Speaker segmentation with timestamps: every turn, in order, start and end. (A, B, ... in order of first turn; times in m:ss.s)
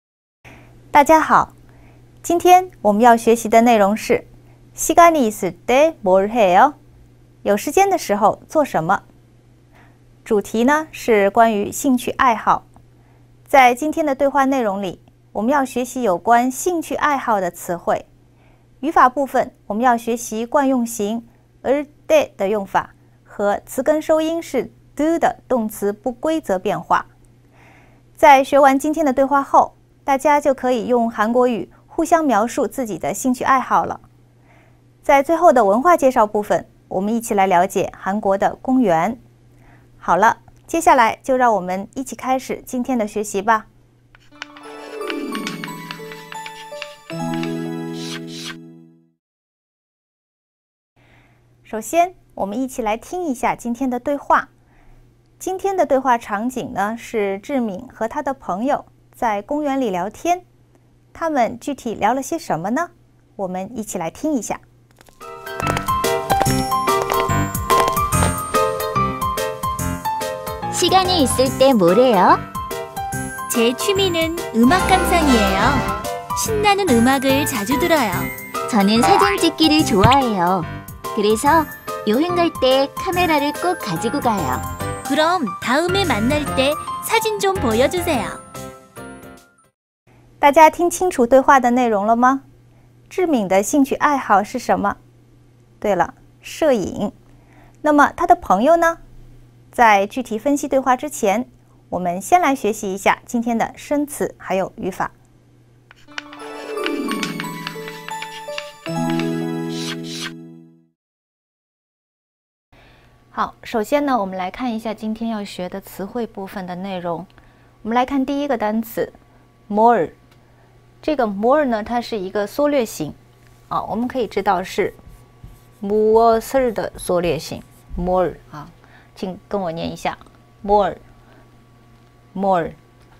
0:00.9-0:01.5 A
0:02.2-0:06.8 A
0:07.4-0:09.0 A
0:10.2-0:12.6 A
0:13.5-0:18.0 A
0:18.8-0:27.1 A
0:28.2-0:34.0 A
0:35.0-0:39.2 A
0:40.0-0:43.7 A
0:51.7-0:54.5 A
0:55.4-1:00.4 A
1:01.1-1:04.6 A
1:10.7-1:12.4 B
1:13.5-1:18.3 C
1:18.7-1:24.6 B
1:25.0-1:28.4 C
1:30.4-1:32.4 A
1:33.1-1:35.0 A
1:35.8-1:37.1 A
1:37.8-1:39.0 A
1:39.7-1:45.1 A
1:53.3-1:57.3 A
1:57.8-1:59.1 A
1:59.7-2:00.1 A
2:01.0-2:03.2 A
2:03.7-2:05.0 A
2:05.8-2:11.0 A
2:12.3-2:12.8 A